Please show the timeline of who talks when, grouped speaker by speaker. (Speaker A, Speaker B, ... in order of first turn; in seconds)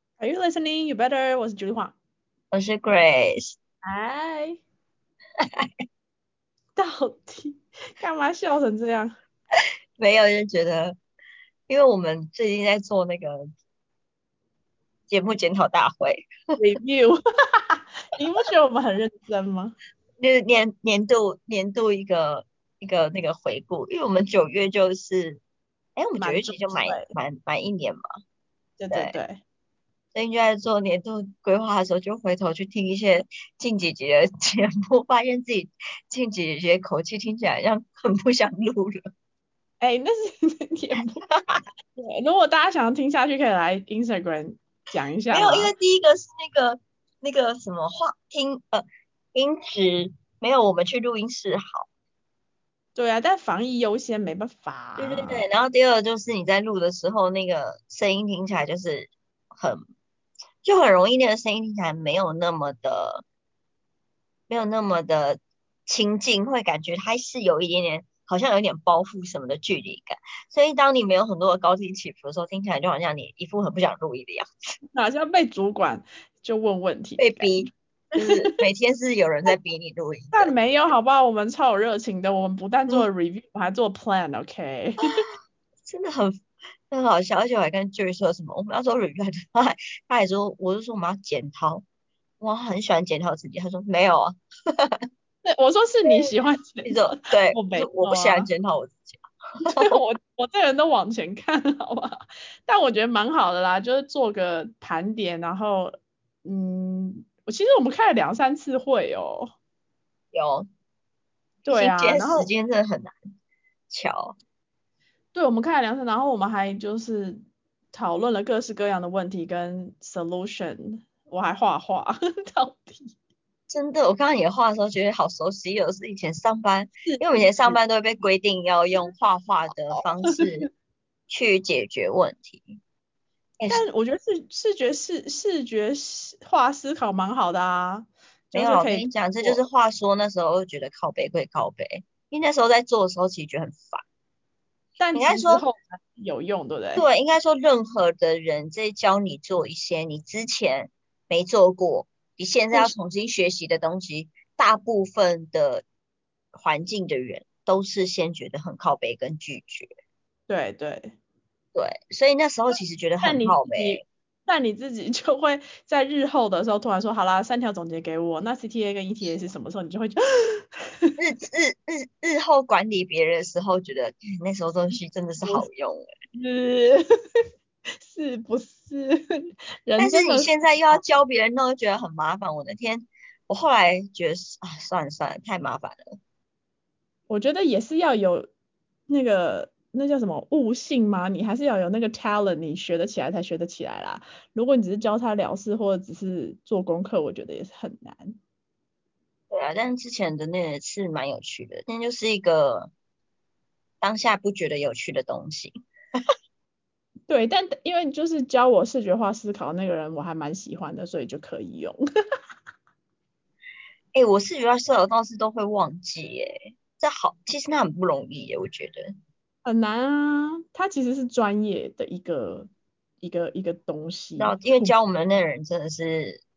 Speaker A: 0.2-1.9, 3.8-4.6, 6.8-9.1, 16.6-19.7, 26.2-27.1, 28.8-29.4, 39.8-41.2, 41.9-45.7, 52.9-55.5, 74.9-78.5, 80.3-85.2, 95.4-98.5, 99.8-109.5, 111.6-112.5, 115.3-123.1, 127.0-127.8, 130.3-130.7, 133.7-139.6, 145.0-147.1, 160.5-161.1, 163.2-171.1, 176.3-177.0, 178.0-180.5, 187.3-188.5, 189.1-198.4, 207.3-212.0, 219.6-222.7, 223.2-224.9
Speaker B: 2.5-3.5, 5.4-5.7, 10.0-11.0, 11.7-13.5, 15.1-16.3, 20.2-25.4, 25.9-28.0, 28.9-29.1, 30.1-39.1, 41.3-41.6, 45.3-51.9, 55.0-59.8, 60.6-63.2, 64.5-74.5, 77.2-80.5, 85.8-91.8, 92.4-95.0, 96.0-96.3, 96.8-100.0, 110.3-110.7, 111.7-113.1, 113.9-114.3, 123.7-130.7, 131.3-132.8, 133.6-133.8, 138.5-144.0, 145.1-145.6, 146.9-155.8, 156.5-159.9, 161.7-164.0, 171.2-176.1, 180.0-186.2, 199.5-202.9, 204.0-205.7, 214.1-219.1, 224.4-226.4